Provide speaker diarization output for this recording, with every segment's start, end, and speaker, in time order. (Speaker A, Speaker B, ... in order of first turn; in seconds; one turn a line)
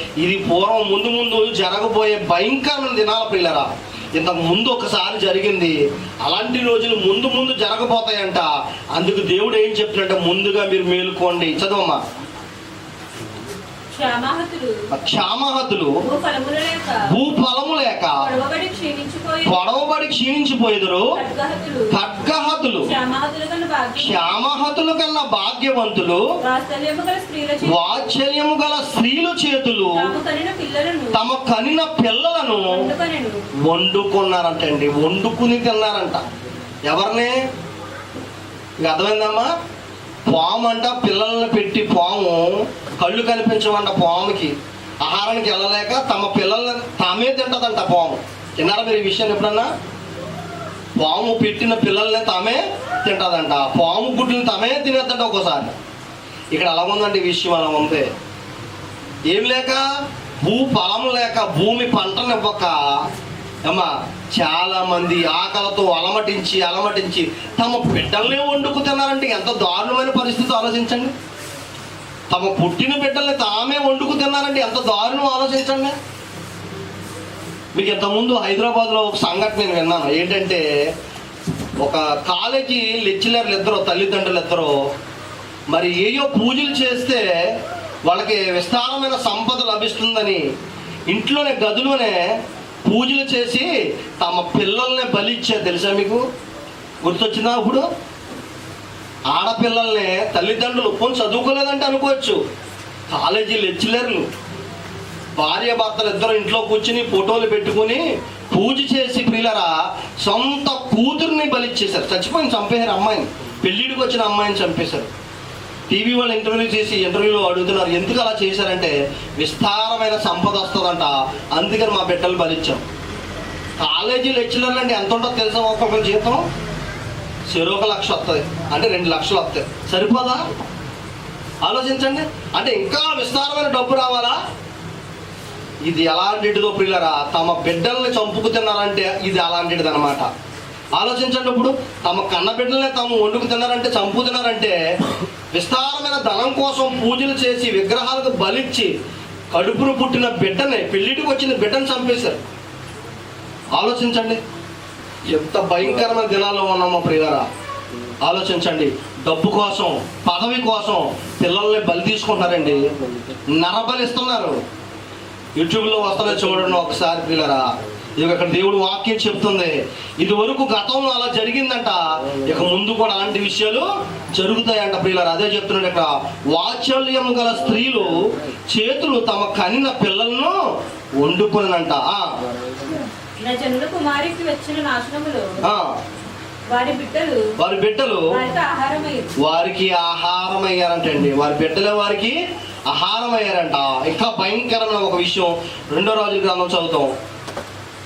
Speaker A: 0.2-12.0
Speaker B: 13.9-14.8
Speaker A: 14.9-16.0
Speaker B: 16.0-17.1
Speaker A: 17.1-18.2
Speaker B: 18.2-19.6
Speaker A: 19.4-21.2
Speaker B: 21.1-22.0
Speaker A: 21.9-22.9
Speaker B: 22.9-24.4
Speaker A: 24.0-26.3
Speaker B: 26.4-28.1
Speaker A: 27.6-30.1
Speaker B: 29.9-31.2
Speaker A: 31.1-32.9
Speaker B: 32.6-33.4
Speaker A: 33.6-36.2
Speaker A: 36.9-37.4
Speaker A: 38.8-39.5
Speaker A: 40.3-49.7
Speaker A: 51.0-55.7
Speaker A: 56.5-58.1
Speaker A: 59.3-59.9
Speaker A: 60.4-62.8
Speaker A: 63.7-71.1
Speaker A: 72.3-75.9
Speaker A: 77.7-80.6
Speaker A: 81.8-84.8
Speaker A: 85.7-87.5
Speaker A: 88.0-90.4
Speaker A: 91.1-96.2
Speaker A: 97.0-97.8
Speaker A: 99.3-102.4
Speaker A: 103.1-104.3
Speaker A: 105.4-115.1
Speaker A: 115.9-122.8
Speaker A: 123.8-126.4
Speaker A: 127.5-130.4
Speaker A: 131.6-134.4
Speaker A: 135.8-140.3
Speaker A: 140.9-144.8
Speaker A: 145.5-148.9
Speaker A: 149.5-152.4
Speaker A: 153.8-154.4
Speaker A: 155.3-157.4
Speaker A: 158.2-164.6
Speaker A: 165.6-167.7
Speaker A: 168.2-180.6
Speaker A: 181.2-182.3
Speaker B: 183.4-185.5
Speaker A: 185.6-185.9
Speaker B: 186.7-187.5
Speaker A: 187.6-188.3
Speaker B: 188.3-189.3
Speaker A: 189.4-197.1